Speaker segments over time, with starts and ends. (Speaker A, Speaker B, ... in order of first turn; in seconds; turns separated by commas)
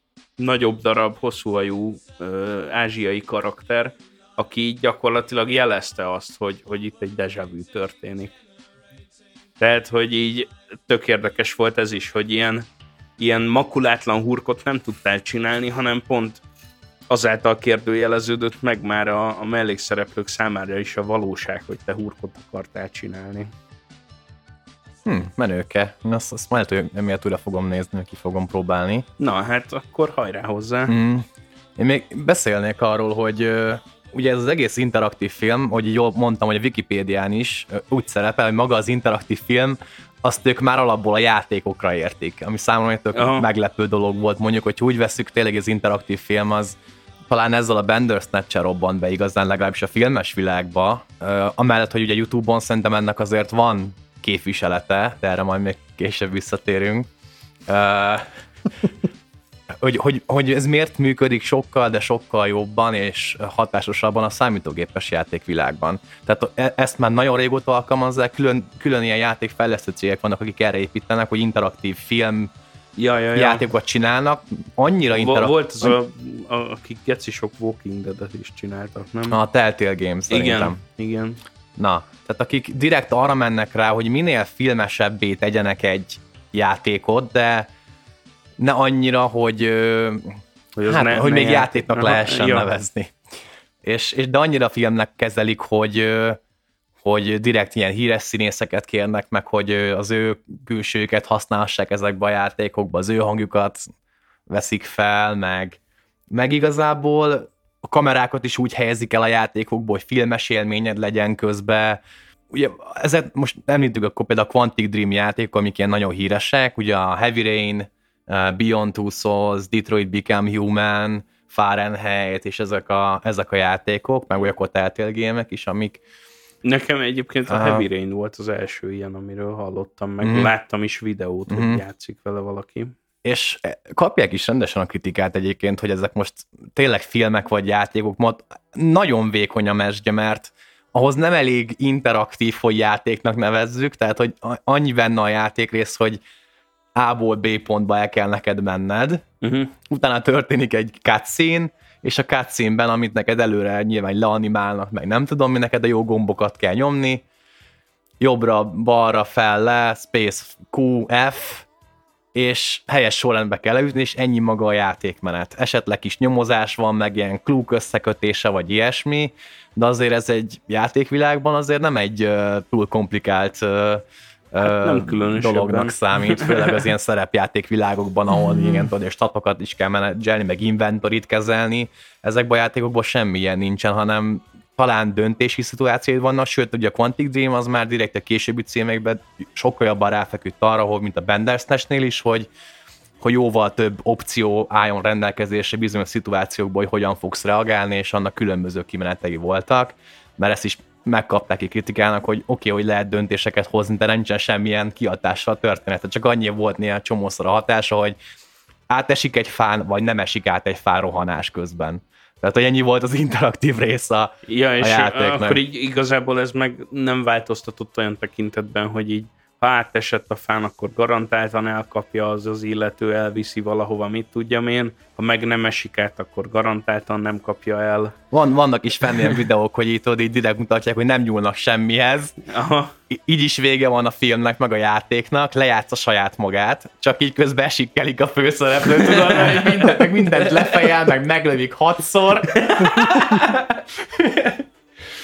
Speaker A: 0.4-8.3, Speaker A: 9.6-16.4, Speaker A: 17.1-23.5, Speaker B: 25.0-29.1, Speaker A: 29.2-30.9, Speaker B: 30.9-46.8, Speaker A: 43.1-43.5, Speaker B: 47.3-57.1, Speaker B: 57.7-58.3, Speaker B: 59.7-72.5, Speaker A: 73.0-73.7, Speaker B: 73.3-76.0, Speaker A: 75.1-79.4, Speaker B: 79.3-80.8, Speaker A: 80.3-81.4, Speaker B: 81.8-87.7, Speaker B: 88.6-93.1, Speaker A: 90.8-92.7, Speaker B: 93.8-96.4, Speaker B: 97.0-103.9, Speaker B: 104.5-105.8, Speaker B: 106.3-126.0, Speaker A: 126.6-132.9, Speaker B: 127.5-127.8, Speaker B: 130.2-130.5, Speaker B: 131.5-131.8, Speaker B: 133.2-146.2, Speaker B: 146.9-149.2, Speaker A: 149.4-149.7, Speaker B: 149.8-157.2, Speaker B: 158.2-161.7, Speaker B: 162.3-192.5, Speaker A: 174.6-176.9, Speaker B: 193.2-208.2, Speaker B: 208.9-215.6, Speaker A: 214.4-228.2, Speaker B: 228.3-232.4, Speaker A: 232.5-232.9, Speaker B: 233.1-244.6, Speaker A: 238.8-240.9, Speaker A: 242.6-243.6